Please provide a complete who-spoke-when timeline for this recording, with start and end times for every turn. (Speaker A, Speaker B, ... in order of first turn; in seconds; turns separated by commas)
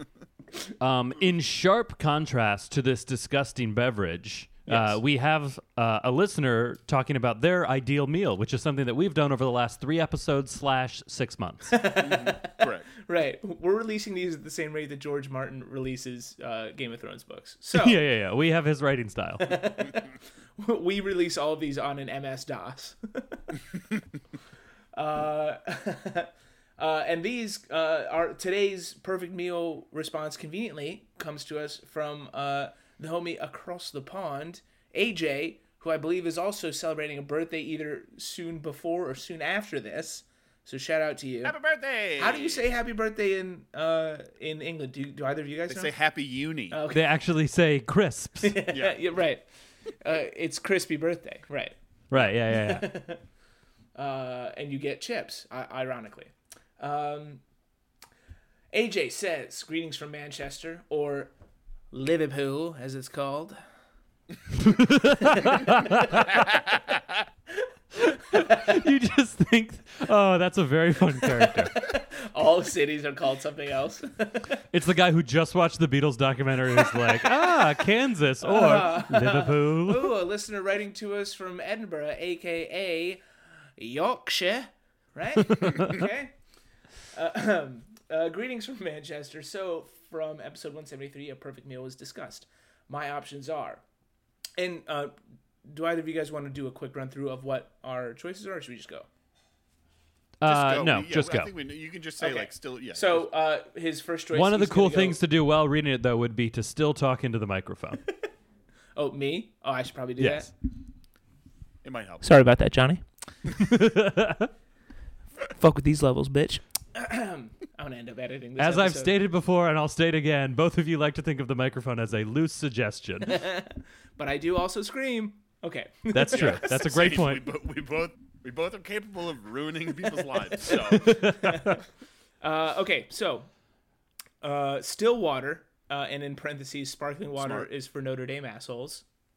Speaker A: 0.8-11.8, Speaker B: 4.7-5.0, Speaker B: 11.7-18.0, Speaker C: 12.0-12.9, Speaker A: 17.7-19.6, Speaker B: 19.4-23.6, Speaker B: 24.9-41.6, Speaker C: 41.4-42.7, Speaker B: 42.2-45.9, Speaker C: 45.7-46.8, Speaker B: 46.7-47.0, Speaker A: 46.9-48.6, Speaker B: 48.4-49.5, Speaker C: 48.7-49.0, Speaker B: 50.0-51.8, Speaker A: 52.1-52.9, Speaker B: 52.5-53.2, Speaker B: 54.0-57.4, Speaker B: 58.7-61.3, Speaker B: 61.9-63.6, Speaker A: 64.5-66.4, Speaker B: 65.2-66.3, Speaker A: 68.1-71.8, Speaker B: 68.3-68.7, Speaker B: 71.2-74.6, Speaker A: 74.7-80.1, Speaker B: 76.9-77.8, Speaker B: 78.4-83.2, Speaker B: 83.8-86.4, Speaker A: 85.5-86.0, Speaker B: 87.1-93.8, Speaker B: 94.6-95.1, Speaker B: 95.7-99.1, Speaker A: 100.4-101.5, Speaker C: 100.5-103.3, Speaker B: 102.2-105.2, Speaker A: 104.3-108.0, Speaker B: 109.0-110.5, Speaker A: 110.2-110.5, Speaker C: 111.8-112.2, Speaker B: 112.2-113.0, Speaker A: 113.5-114.5, Speaker B: 115.5-119.2, Speaker A: 118.6-123.4, Speaker B: 123.3-127.2, Speaker A: 126.1-127.5, Speaker C: 126.3-131.2, Speaker B: 130.5-131.8, Speaker A: 131.0-131.8, Speaker B: 132.4-133.5, Speaker B: 134.4-139.0, Speaker C: 137.4-137.7